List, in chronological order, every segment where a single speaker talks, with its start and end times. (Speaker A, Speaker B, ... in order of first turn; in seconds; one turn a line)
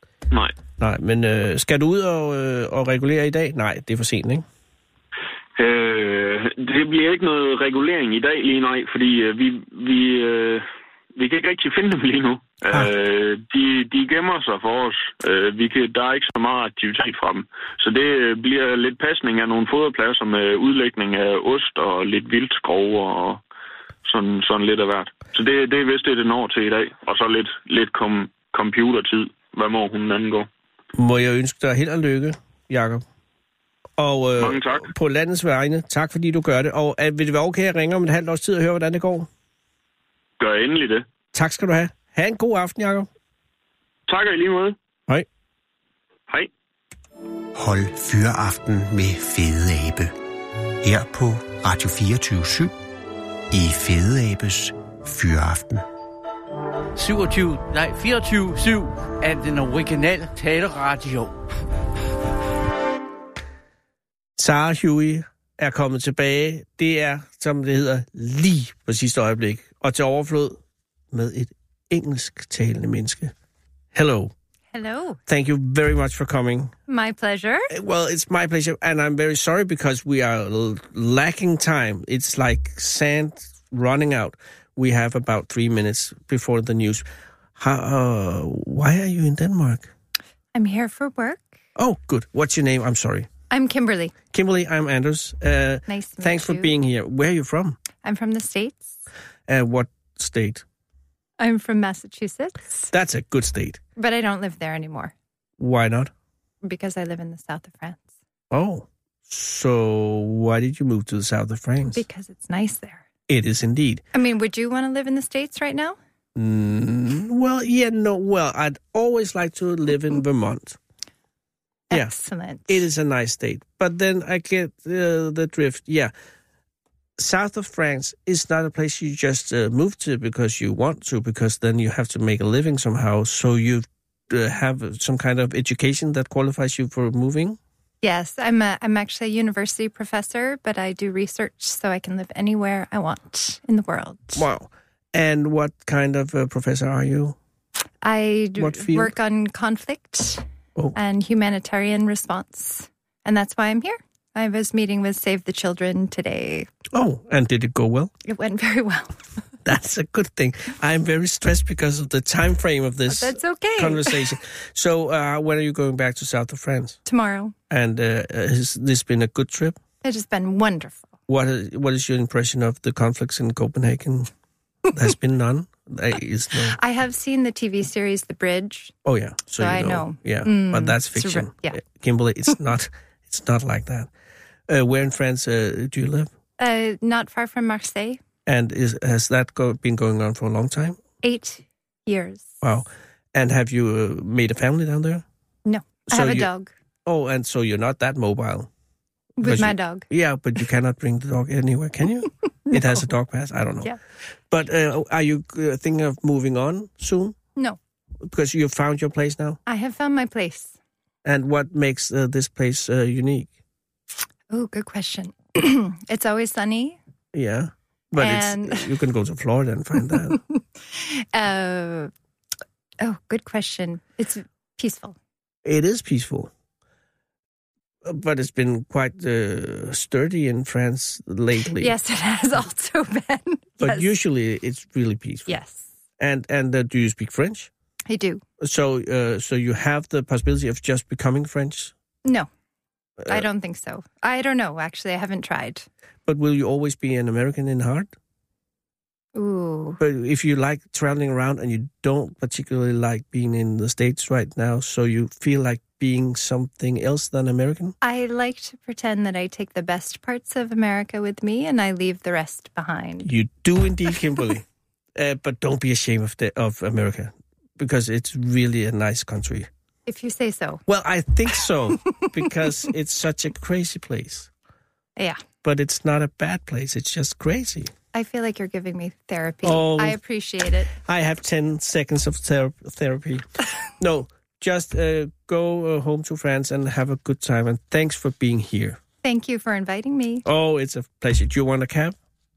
Speaker A: 0.8-4.5
Speaker B: 5.6-23.4
Speaker B: 24.0-30.5
Speaker A: 30.9-33.0
Speaker A: 34.0-39.3
Speaker B: 34.4-34.9
Speaker B: 40.4-41.1
Speaker A: 41.3-43.1
Speaker B: 44.1-44.8
Speaker C: 47.5-50.1
Speaker C: 50.8-52.7
Speaker C: 53.5-55.9
Speaker D: 57.0-61.4
Speaker A: 64.4-70.6
Speaker A: 71.1-73.3
Speaker A: 73.9-74.3
Speaker E: 74.7-75.2
Speaker A: 75.3-76.7
Speaker E: 76.9-77.7
Speaker A: 77.7-87.1
Speaker A: 87.6-89.9
Speaker E: 90.5-91.5
Speaker A: 91.8-93.3
Speaker E: 93.5-94.2
Speaker A: 94.3-97.8
Speaker E: 95.9-96.8
Speaker E: 98.0-99.0
Speaker A: 99.5-100.6
Speaker E: 101.4-102.9
Speaker A: 102.9-103.8
Speaker E: 104.0-105.1
Speaker A: 105.6-106.1
Speaker E: 106.6-108.1
Speaker A: 108.5-112.0
Speaker E: 111.9-113.1
Speaker A: 113.3-114.0
Speaker E: 114.1-116.0
Speaker A: 116.4-120.8
Speaker E: 121.9-122.8
Speaker A: 122.7-126.1
Speaker A: 127.2-137.6
Speaker E: 138.0-144.5
Speaker A: 144.4-147.4
Speaker E: 148.0-156.7
Speaker A: 148.6-149.1
Speaker A: 156.9-158.1
Speaker E: 158.2-159.2
Speaker A: 159.6-167.0
Speaker E: 163.1-164.4
Speaker E: 167.1-167.6
Speaker A: 167.7-169.8
Speaker E: 170.0-171.1
Speaker A: 171.3-174.3
Speaker A: 174.9-176.8
Speaker E: 176.6-179.0
Speaker A: 179.1-184.1
Speaker E: 179.6-181.8
Speaker A: 184.7-186.3
Speaker E: 186.6-188.2
Speaker A: 188.5-191.0
Speaker E: 191.2-192.6
Speaker A: 192.6-195.2
Speaker E: 195.7-196.7
Speaker A: 196.1-196.5
Speaker A: 197.1-198.7
Speaker E: 199.4-200.1
Speaker A: 199.4-204.0
Speaker E: 202.7-203.0
Speaker A: 204.5-207.4
Speaker A: 208.2-209.6
Speaker E: 209.7-210.7
Speaker A: 211.2-213.5
Speaker E: 214.5-217.0
Speaker A: 217.3-220.4
Speaker E: 218.2-219.0
Speaker E: 220.1-220.4
Speaker E: 220.9-222.1
Speaker E: 223.0-225.2
Speaker A: 225.7-226.5
Speaker A: 228.1-231.9
Speaker E: 231.6-234.2
Speaker A: 233.8-235.6
Speaker E: 235.5-235.8
Speaker A: 236.2-237.7
Speaker E: 238.1-238.4
Speaker A: 238.6-241.9
Speaker E: 243.2-245.9
Speaker A: 246.3-248.1
Speaker E: 249.3-250.0
Speaker A: 250.0-258.0
Speaker E: 258.0-263.3
Speaker A: 263.2-264.6
Speaker A: 265.1-269.7
Speaker E: 270.1-270.8
Speaker A: 270.9-274.5
Speaker E: 275.2-275.4
Speaker A: 275.6-277.9
Speaker E: 278.1-280.9
Speaker A: 279.6-280.2
Speaker A: 281.1-283.5
Speaker A: 284.0-289.0
Speaker E: 289.2-290.4
Speaker A: 290.4-292.2